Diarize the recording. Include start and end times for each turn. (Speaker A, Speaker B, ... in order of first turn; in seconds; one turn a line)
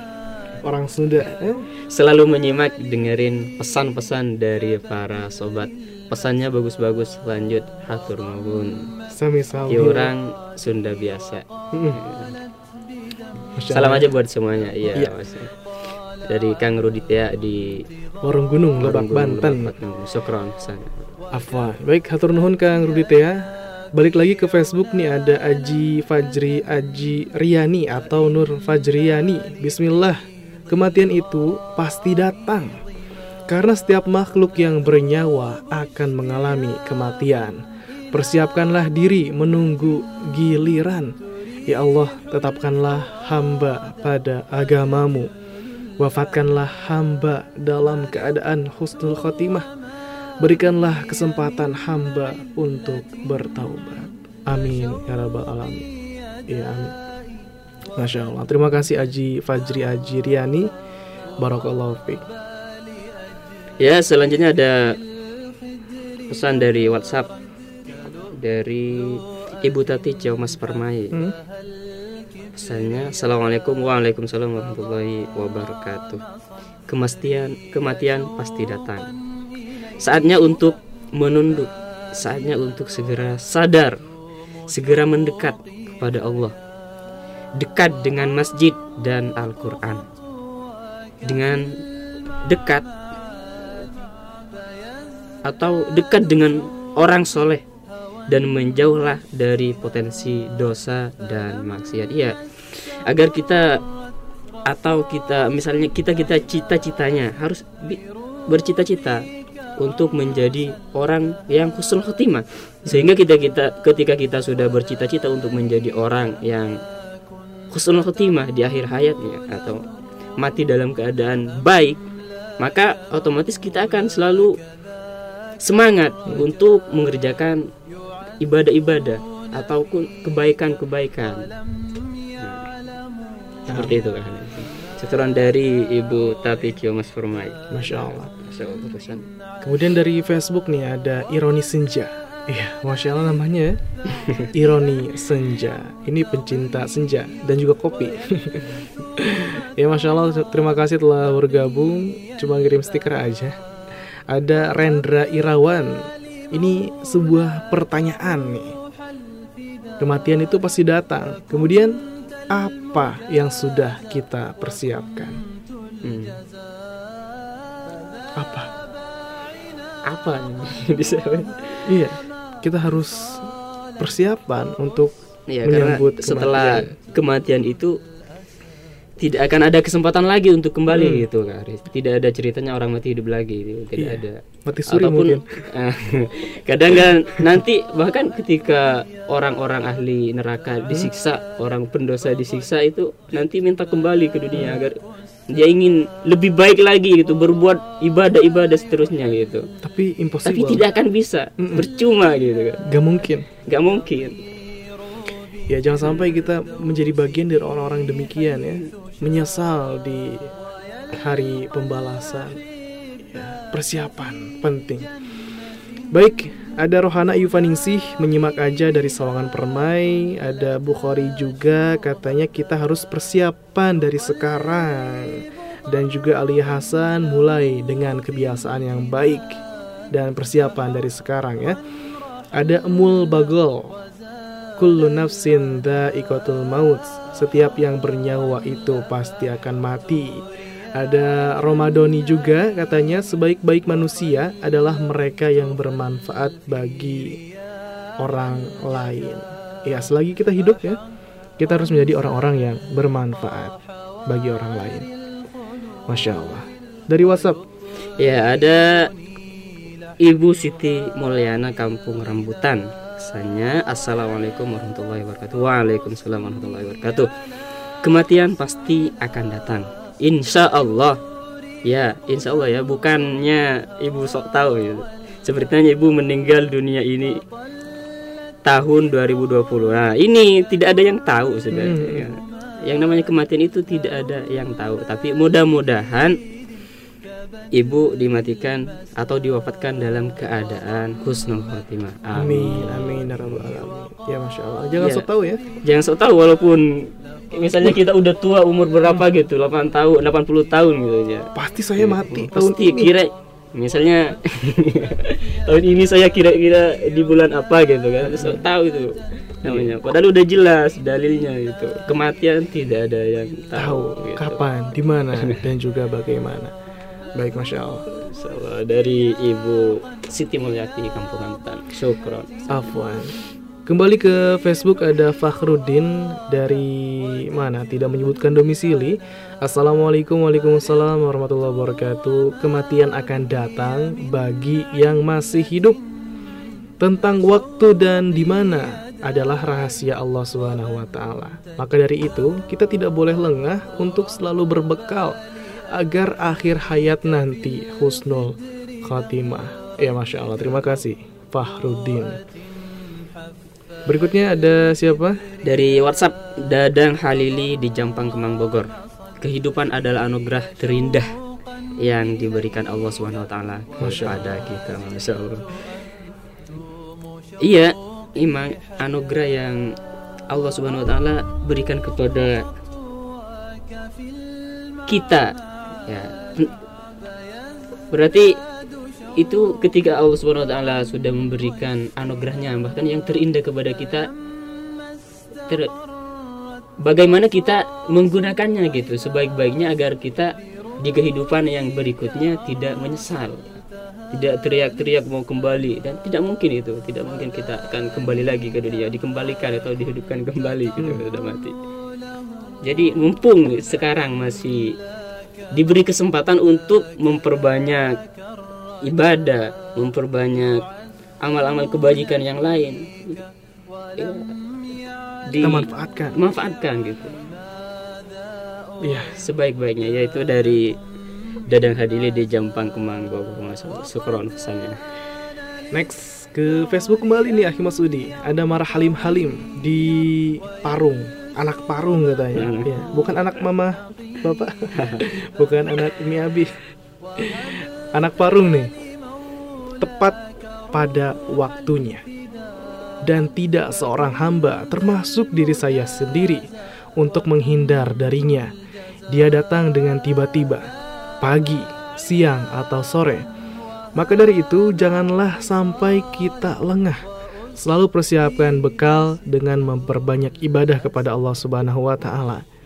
Speaker A: 0.6-1.6
Speaker B: 1.9-8.9
Speaker A: 9.1-10.1
Speaker B: 9.7-12.3
Speaker A: 11.7-12.0
Speaker A: 13.6-14.1
Speaker B: 13.7-15.6
Speaker B: 16.2-17.8
Speaker A: 18.2-19.7
Speaker B: 18.8-21.0
Speaker A: 21.3-30.2
Speaker A: 30.7-32.7
Speaker A: 33.5-37.6
Speaker A: 38.1-41.1
Speaker A: 41.7-45.3
Speaker A: 46.0-49.7
Speaker A: 50.4-55.8
Speaker A: 56.5-56.9
Speaker A: 58.0-60.7
Speaker A: 61.4-62.2
Speaker B: 63.8-65.0
Speaker B: 66.3-67.3
Speaker B: 68.4-71.2
Speaker B: 72.5-76.2
Speaker B: 76.9-79.1
Speaker B: 80.0-84.0
Speaker B: 84.7-86.5
Speaker B: 87.6-90.0
Speaker B: 91.2-91.7
Speaker B: 92.4-92.9
Speaker B: 95.5-97.6
Speaker B: 98.3-102.3
Speaker B: 102.9-103.8
Speaker B: 104.7-109.2
Speaker B: 109.8-116.8
Speaker B: 117.7-119.8
Speaker B: 120.4-122.0
Speaker B: 122.6-124.5
Speaker B: 125.6-127.6
Speaker B: 128.4-131.5
Speaker B: 132.4-132.7
Speaker A: 133.7-134.0
Speaker B: 133.7-139.3
Speaker A: 137.7-138.3
Speaker A: 139.6-143.8
Speaker B: 144.1-144.5
Speaker A: 144.5-148.6
Speaker A: 149.2-153.6
Speaker A: 154.3-155.9
Speaker A: 156.5-158.8
Speaker A: 160.0-162.0
Speaker A: 162.5-165.4
Speaker B: 166.0-166.4
Speaker A: 168.4-168.7
Speaker B: 170.1-171.9
Speaker A: 171.8-175.1
Speaker B: 175.5-177.9
Speaker A: 175.6-176.9
Speaker B: 179.2-199.6
Speaker A: 180.9-181.2
Speaker A: 184.0-185.4
Speaker A: 199.8-200.8
Speaker B: 200.4-202.8
Speaker A: 201.6-201.8
Speaker A: 202.8-203.4
Speaker B: 203.7-204.3
Speaker A: 205.7-210.5
Speaker A: 211.1-212.6
Speaker A: 213.3-215.1
Speaker A: 216.1-229.6
Speaker A: 230.1-231.8
Speaker A: 232.6-233.9
Speaker A: 234.8-240.4
Speaker A: 240.9-247.4
Speaker A: 248.2-251.0
Speaker A: 251.6-253.7
Speaker A: 254.3-255.1
Speaker A: 256.1-257.6
Speaker B: 258.2-259.1
Speaker B: 260.2-267.3
Speaker B: 268.0-271.2
Speaker B: 271.8-277.4
Speaker B: 278.6-286.4
Speaker A: 281.7-282.3
Speaker B: 287.7-293.6
Speaker A: 292.3-295.6
Speaker B: 295.0-295.2
Speaker B: 295.8-314.6
Speaker A: 301.5-303.1
Speaker A: 308.2-308.6
Speaker A: 309.6-309.9
Speaker A: 313.7-316.7
Speaker A: 317.4-318.0
Speaker B: 318.1-322.7
Speaker A: 322.7-336.0
Speaker A: 337.0-345.3
Speaker A: 345.9-352.4
Speaker A: 354.1-355.4
Speaker B: 355.6-358.9
Speaker B: 359.4-361.3
Speaker B: 362.0-365.6
Speaker A: 364.0-364.6
Speaker B: 367.6-369.8
Speaker B: 370.5-372.6
Speaker B: 375.1-375.5
Speaker B: 376.1-376.7
Speaker B: 378.1-378.5
Speaker B: 379.4-384.3
Speaker B: 387.0-393.7
Speaker B: 394.3-401.7
Speaker B: 402.8-404.9
Speaker B: 405.7-408.1
Speaker B: 409.1-410.8
Speaker B: 411.4-413.4
Speaker B: 414.2-414.5
Speaker B: 415.5-417.5
Speaker A: 415.6-416.4
Speaker A: 419.0-419.3
Speaker B: 419.3-420.9
Speaker B: 421.7-425.0
Speaker A: 425.9-436.7
Speaker B: 432.6-432.9
Speaker B: 434.9-435.2
Speaker A: 437.4-438.9
Speaker A: 440.0-440.4
Speaker A: 440.9-442.2
Speaker A: 443.2-446.6
Speaker A: 447.2-448.7
Speaker A: 449.3-450.8
Speaker A: 451.4-453.4
Speaker A: 454.2-457.2
Speaker A: 457.8-462.6